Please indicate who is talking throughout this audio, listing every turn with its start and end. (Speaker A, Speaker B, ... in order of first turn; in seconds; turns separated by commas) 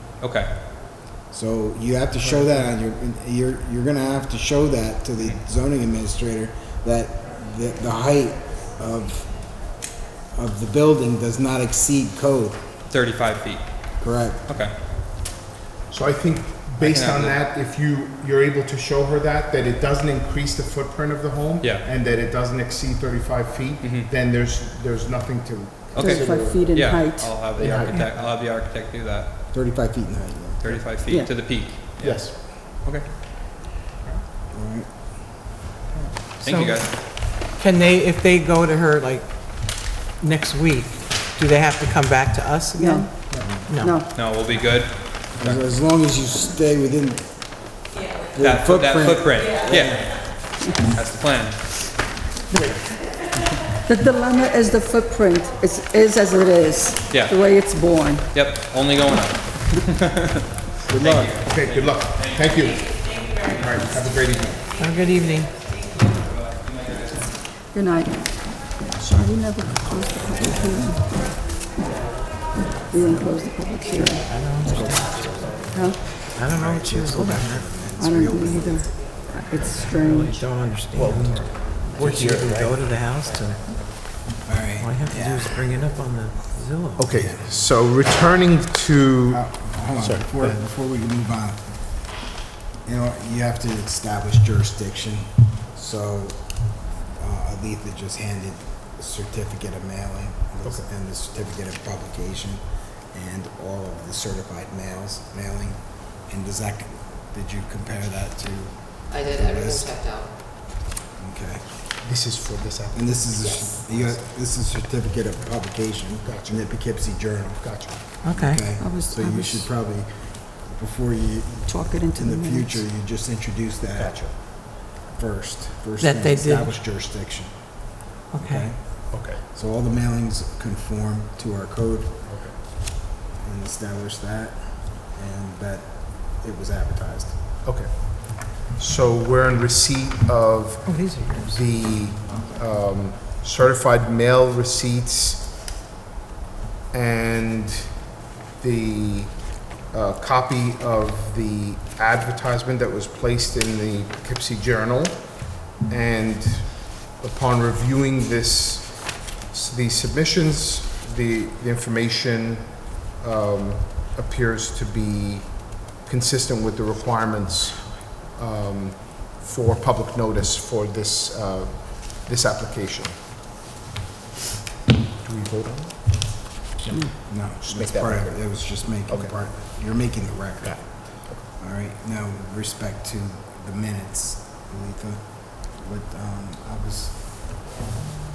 Speaker A: 0.2-0.5, Speaker B: 1.3-9.7, Speaker B: 10.3-12.6, Speaker A: 12.9-13.6, Speaker B: 14.0-14.4, Speaker A: 14.4-14.7, Speaker C: 15.9-26.8, Speaker A: 16.8-17.4, Speaker A: 21.6-21.9, Speaker A: 23.8-24.1, Speaker A: 25.9-29.3, Speaker D: 25.9-27.6, Speaker C: 27.4-28.2, Speaker B: 29.5-30.6, Speaker A: 30.6-33.1, Speaker D: 31.0-31.5, Speaker C: 32.0-32.5, Speaker B: 34.5-34.9, Speaker A: 36.4-36.9, Speaker E: 36.4-36.9, Speaker E: 37.4-43.9, Speaker D: 42.8-44.1, Speaker C: 43.3-43.7, Speaker B: 43.4-43.8, Speaker A: 44.1-45.6, Speaker B: 45.4-50.1, Speaker A: 48.4-50.2, Speaker A: 50.8-51.6, Speaker D: 52.5-53.1, Speaker D: 53.9-58.3, Speaker A: 57.1-57.4, Speaker A: 58.3-62.8, Speaker B: 60.9-61.3, Speaker C: 61.3-64.7, Speaker E: 64.8-65.5, Speaker A: 66.0-67.3, Speaker D: 67.7-68.4, Speaker D: 69.1-71.3, Speaker D: 72.9-74.3, Speaker E: 72.9-73.3, Speaker E: 74.1-77.8, Speaker B: 74.6-75.7, Speaker D: 75.7-76.1, Speaker B: 76.3-78.9, Speaker D: 77.9-80.3, Speaker F: 78.2-79.5, Speaker E: 79.8-83.6, Speaker C: 80.9-82.8, Speaker F: 81.4-82.2, Speaker B: 84.5-85.5, Speaker E: 84.8-87.1, Speaker C: 87.0-90.6, Speaker B: 87.1-87.6, Speaker B: 89.3-92.2, Speaker B: 92.8-109.9, Speaker F: 109.1-110.4, Speaker B: 111.2-111.7, Speaker C: 112.0-114.2, Speaker B: 112.9-132.2, Speaker C: 116.2-116.8, Speaker C: 117.6-118.0, Speaker E: 118.2-118.7, Speaker D: 118.7-119.7, Speaker D: 121.7-122.8, Speaker C: 124.0-124.3, Speaker E: 126.0-126.8, Speaker E: 128.3-128.7, Speaker C: 129.1-129.4, Speaker C: 132.2-132.6, Speaker B: 133.3-137.4, Speaker C: 137.6-145.5, Speaker E: 140.8-141.6, Speaker C: 146.9-147.9, Speaker C: 148.6-173.1, Speaker C: 175.2-179.3, Speaker B: 177.2-187.3, Speaker C: 180.6-181.4